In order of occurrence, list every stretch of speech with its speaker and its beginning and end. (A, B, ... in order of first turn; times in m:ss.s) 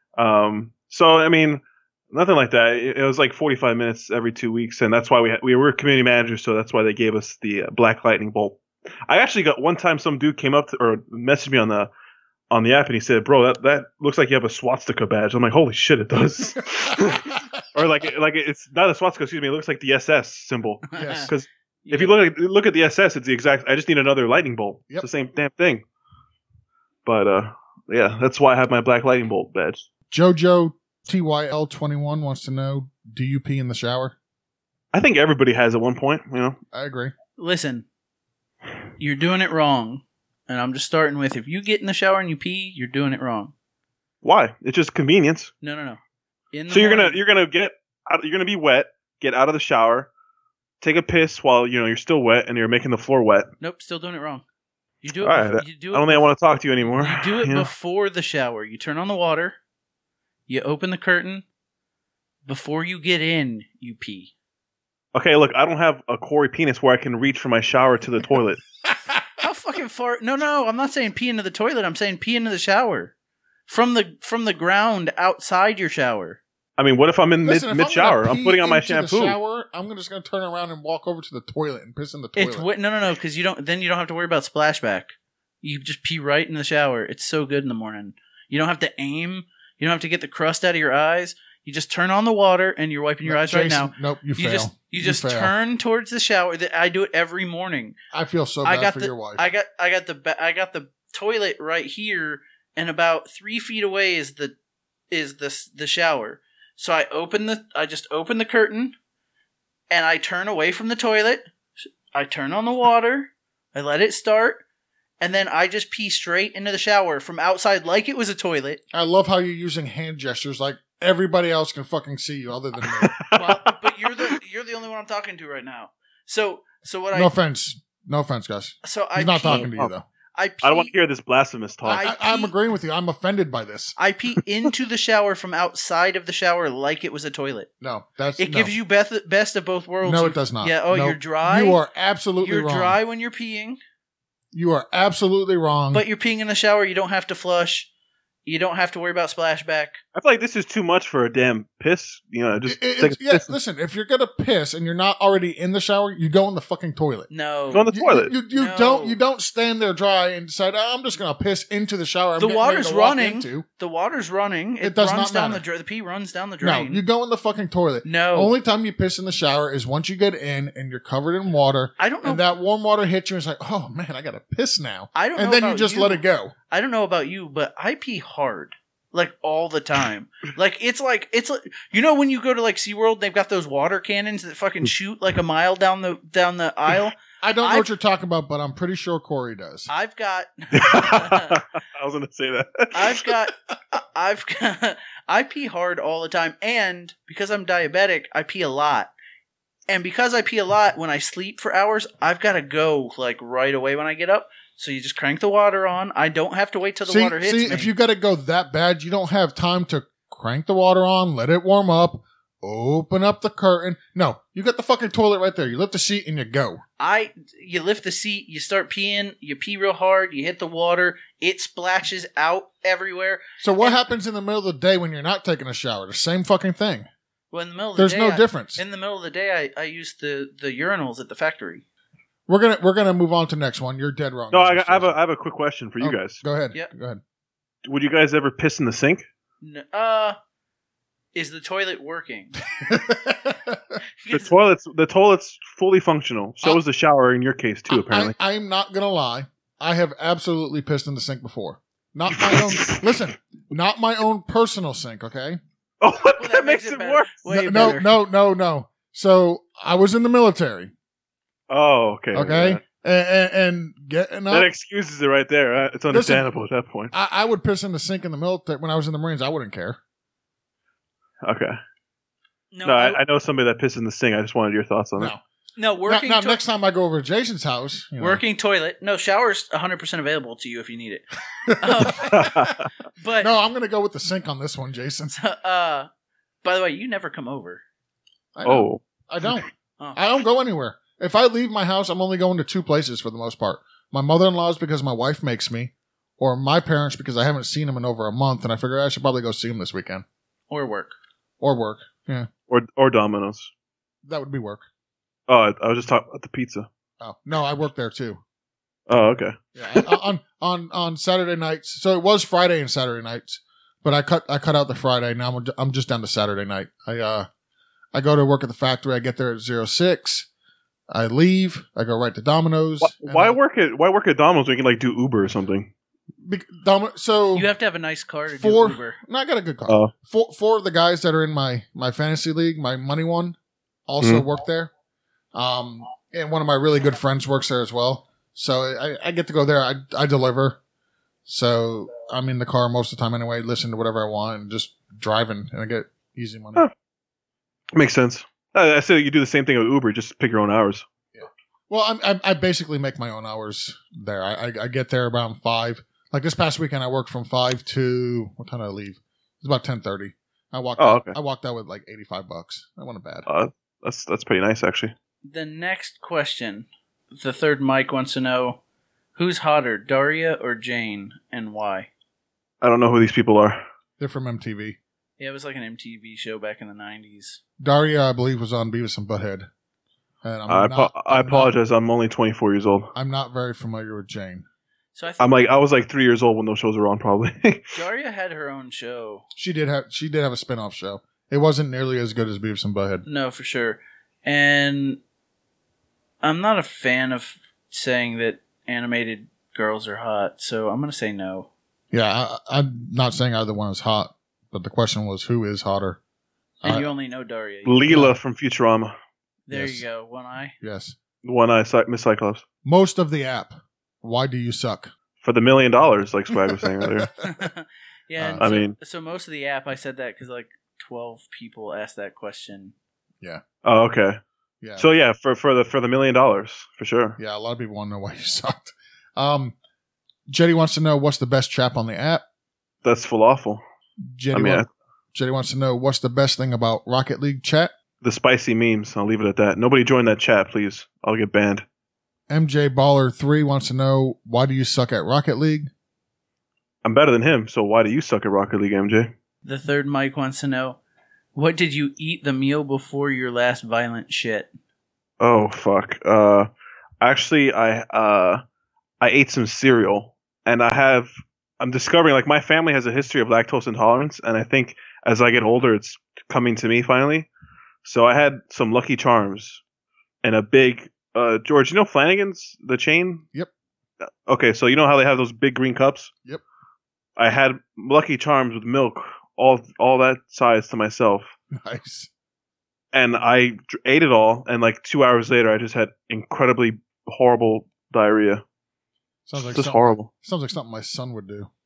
0:00.2-0:11.9 A
0:12.5-0:25.8 A
0:20.9-0:21.3 B
0:21.0-0:21.3 C
0:21.8-0:22.1 B
0:27.0-0:29.8 A
0:30.1-0:34.1 C
0:34.9-0:36.6 A
0:36.7-0:37.1 C
0:37.4-0:37.8 B
0:39.0-0:43.5 B
0:44.2-0:45.5 A
0:45.6-0:46.0 B
0:46.5-0:47.2 B
0:46.7-0:50.1 A
0:50.8-0:53.5 A
0:53.6-0:54.4 B
0:55.0-0:56.3 B
0:55.2-0:57.7 A
0:56.8-0:59.6 B
1:00.5-1:01.4 B
1:02.4-1:04.3 B
1:05.1-1:08.6 A
1:08.8-1:09.2 C
1:09.4-1:13.1 B
1:13.7-1:16.4 B
1:16.8-1:19.4 A
1:17.4-1:22.7 C
1:22.4-1:38.0 B
1:33.2-1:35.5 C
1:38.1-1:39.5 C
1:38.6-1:44.5 B
1:45.1-1:48.9 B
1:49.9-1:51.4 B
1:52.1-1:54.6 B
1:55.2-1:58.8 B
1:58.9-2:03.2 C
2:02.9-2:04.1 A
2:03.3-2:07.3 B
2:07.1-2:10.0 C
2:08.8-2:09.7 B
2:09.5-2:09.9 A
2:10.3-2:10.9 B
2:10.6-2:12.1 A
2:11.8-2:14.0 C
2:11.9-2:12.5 B
2:14.0-2:17.7 B
2:17.8-2:18.7 C
2:18.4-2:21.8 B
2:20.0-2:23.0 C
2:22.4-2:23.8 B
2:24.5-2:26.0 C
2:25.9-2:27.9 B
2:28.4-2:30.0 B
2:30.1-2:33.5 A
2:32.6-2:37.3 C
2:37.3-2:37.9 B
2:37.7-2:38.3 A
2:37.9-2:43.6 C
2:38.5-2:39.2 B
2:42.4-2:47.0 B
2:44.8-2:45.6 C
2:46.6-2:56.5 C
2:48.0-2:48.5 B
2:52.0-2:52.4 B
2:55.1-3:07.9 B
3:07.4-3:09.9 C
3:09.9-3:11.6 B
3:10.7-3:13.3 A
3:12.9-3:19.1 B
3:19.9-3:27.9 B
3:27.1-3:36.8 C
3:37.0-3:44.0 B
3:43.6-3:47.1 C
3:47.5-3:51.8 B
3:48.0-3:48.8 C
3:52.5-3:55.1 C
3:54.5-3:56.4 A
3:56.0-3:57.2 C
3:57.8-3:59.2 A
3:59.6-4:00.4 B
4:01.3-4:02.6 B
4:02.8-4:04.0 C
4:04.2-4:04.5 B
4:04.3-4:08.3 A
4:07.9-4:15.6 C
4:12.3-4:13.2 A
4:16.0-4:18.0 A
4:16.4-4:18.1 B
4:17.5-4:20.9 C
4:21.7-4:22.8 A
4:22.3-4:24.7 C
4:24.5-4:27.1 A
4:26.1-4:26.5 C
4:27.1-4:30.0 C
4:31.4-4:31.8 A
4:32.7-4:33.2 B
4:32.8-4:35.3 A
4:35.8-4:36.6 B
4:36.0-4:38.4 C
4:38.2-4:43.5 B
4:41.7-4:42.5 C
4:42.3-4:42.8 A
4:43.4-4:45.3 C
4:45.3-4:46.1 B
4:46.6-4:47.8 B
4:48.6-5:00.2 C
4:48.6-4:49.0 A
5:00.7-5:01.1 B
5:01.6-5:02.5 C
5:02.7-5:03.7 A
5:04.2-5:04.8 C
5:05.5-5:06.9 A
5:07.2-5:08.4 C
5:09.1-5:10.1 A
5:09.8-5:17.5 C
5:18.1-5:20.5 C
5:21.1-5:23.6 C
5:23.0-5:25.9 A
5:26.4-5:27.7 C
5:27.5-5:29.2 B
5:28.5-5:34.9 C
5:29.9-5:30.1 A
5:35.5-5:40.8 C
5:41.4-5:46.8 C
5:47.9-5:51.0 A
5:51.3-6:03.4 C
6:01.0-6:01.3 A
6:03.5-6:05.1 A
6:05.5-6:08.8 B
6:09.3-6:12.1 B
6:12.8-6:13.8 A
6:14.2-6:15.0 C
6:15.4-6:17.6 B
6:17.8-6:19.7 C
6:20.4-6:21.7 C
6:20.7-6:23.1 A
6:23.1-6:24.6 C
6:25.1-6:25.6 B
6:25.4-6:28.0 A
6:27.9-6:29.4 B
6:29.6-6:33.2 C
6:33.2-6:35.2 B
6:36.4-6:41.7 B
6:42.1-6:46.2 C
6:46.8-6:48.0 B
6:47.8-6:49.1 A
6:48.1-6:48.3 C
6:49.7-6:50.7 B
6:49.7-6:50.0 C
6:50.8-6:51.2 C
6:51.4-6:52.6 A
6:52.8-6:55.1 C
6:55.4-6:57.3 A
6:56.8-6:57.1 C
6:57.4-7:02.9 B
6:58.4-6:58.6 C
6:58.6-6:59.0 A
7:03.8-7:04.4 A
7:04.8-7:05.0 C
7:05.0-7:07.4 A
7:07.4-7:09.7 C
7:10.5-7:12.4 C
7:13.0-7:13.8 A
7:14.3-7:17.9 C
7:14.5-7:14.9 A
7:18.2-7:21.8 A
7:22.5-7:25.9 C
7:27.0-7:29.3 A
7:29.6-7:31.0 B
7:31.5-7:34.7 B
7:35.4-7:36.7 A
7:37.2-7:38.6 A
7:39.2-7:41.3 A
7:41.8-7:47.5 A
7:48.0-7:49.8 A
7:50.4-7:53.4 A
7:54.4-7:56.3 A
7:57.4-8:01.5 A
8:01.7-8:02.3 C
8:03.1-8:08.6 A
8:09.5-8:11.7 C
8:09.6-8:10.3 A